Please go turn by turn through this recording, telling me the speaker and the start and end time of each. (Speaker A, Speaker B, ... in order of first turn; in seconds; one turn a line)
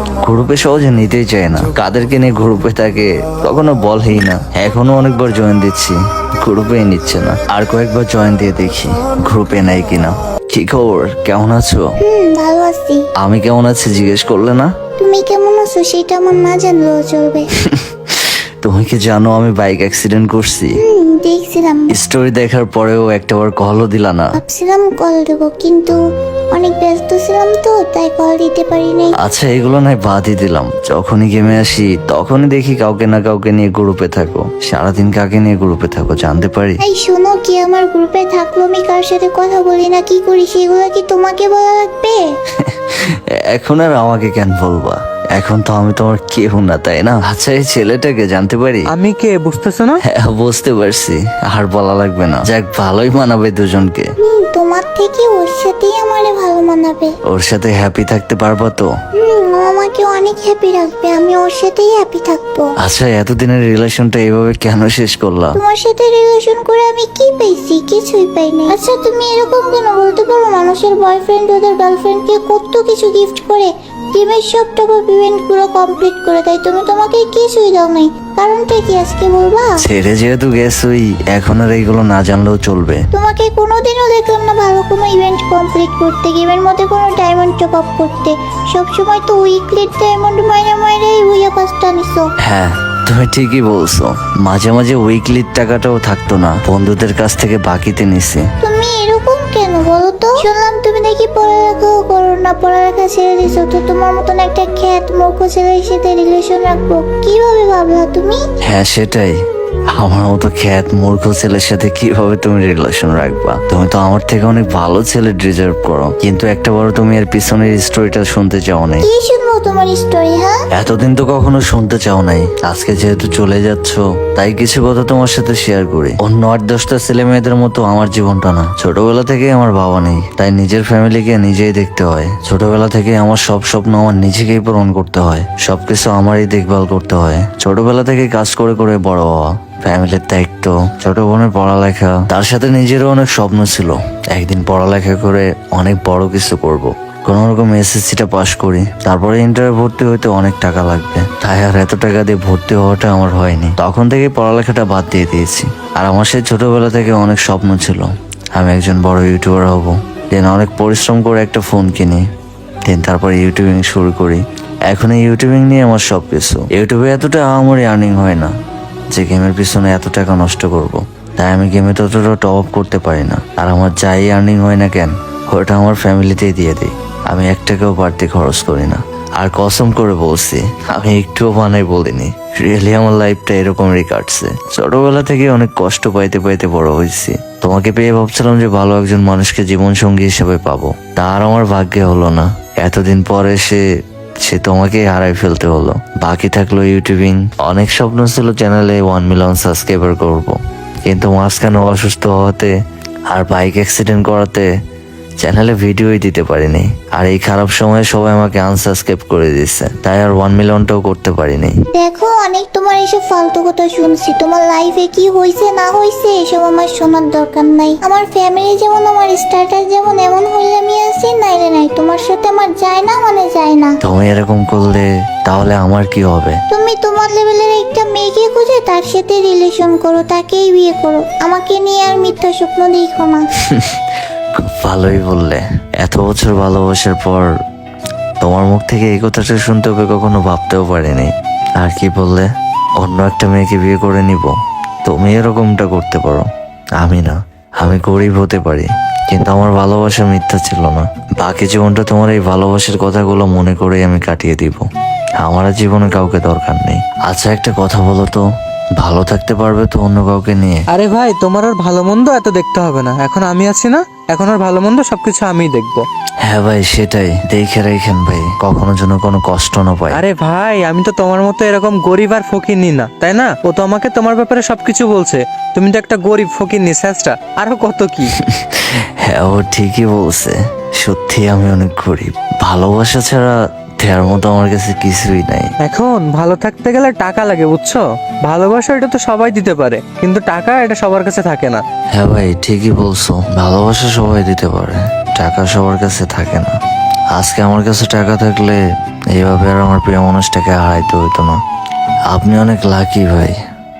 Speaker A: 0.2-11.8
Speaker B: 12.0-13.1
Speaker A: 13.2-14.7
Speaker B: 15.0-17.5
Speaker A: 17.6-20.8
Speaker B: 20.8-21.9
Speaker A: 21.9-24.4
Speaker B: 24.3-26.0
Speaker B: 26.5-29.2
Speaker A: 29.2-36.8
Speaker B: 36.8-42.2
Speaker A: 42.6-48.9
Speaker C: 48.9-50.0
Speaker A: 50.0-54.1
Speaker B: 54.2-57.2
Speaker A: 57.3-58.9
Speaker B: 59.1-62.7
Speaker A: 62.8-65.6
Speaker B: 65.5-79.8
Speaker A: 79.8-83.0
Speaker B: 83.1-92.3
Speaker A: 92.4-98.5
Speaker B: 98.6-108.4
Speaker A: 108.6-109.4
Speaker A: 110.0-119.1
Speaker B: 119.0-120.6
Speaker A: 120.7-162.2
Speaker A: 162.9-168.5
Speaker A: 169.1-193.8
Speaker A: 194.4-202.7
Speaker A: 203.3-204.7
Speaker A: 205.4-211.7
Speaker B: 211.9-224.0
Speaker A: 224.0-226.6
Speaker B: 226.7-233.4
Speaker A: 233.7-234.0
Speaker A: 234.6-237.5
Speaker A: 238.4-244.5
Speaker A: 245.1-246.5
Speaker A: 247.0-254.9
Speaker A: 255.4-258.4
Speaker A: 259.0-260.9
Speaker C: 260.9-266.1
Speaker A: 266.4-270.2
Speaker C: 270.1-278.4
Speaker A: 278.4-285.7
Speaker C: 285.8-291.8
Speaker A: 292.1-296.7
Speaker A: 297.3-298.8
Speaker A: 299.4-301.6
Speaker A: 302.3-303.5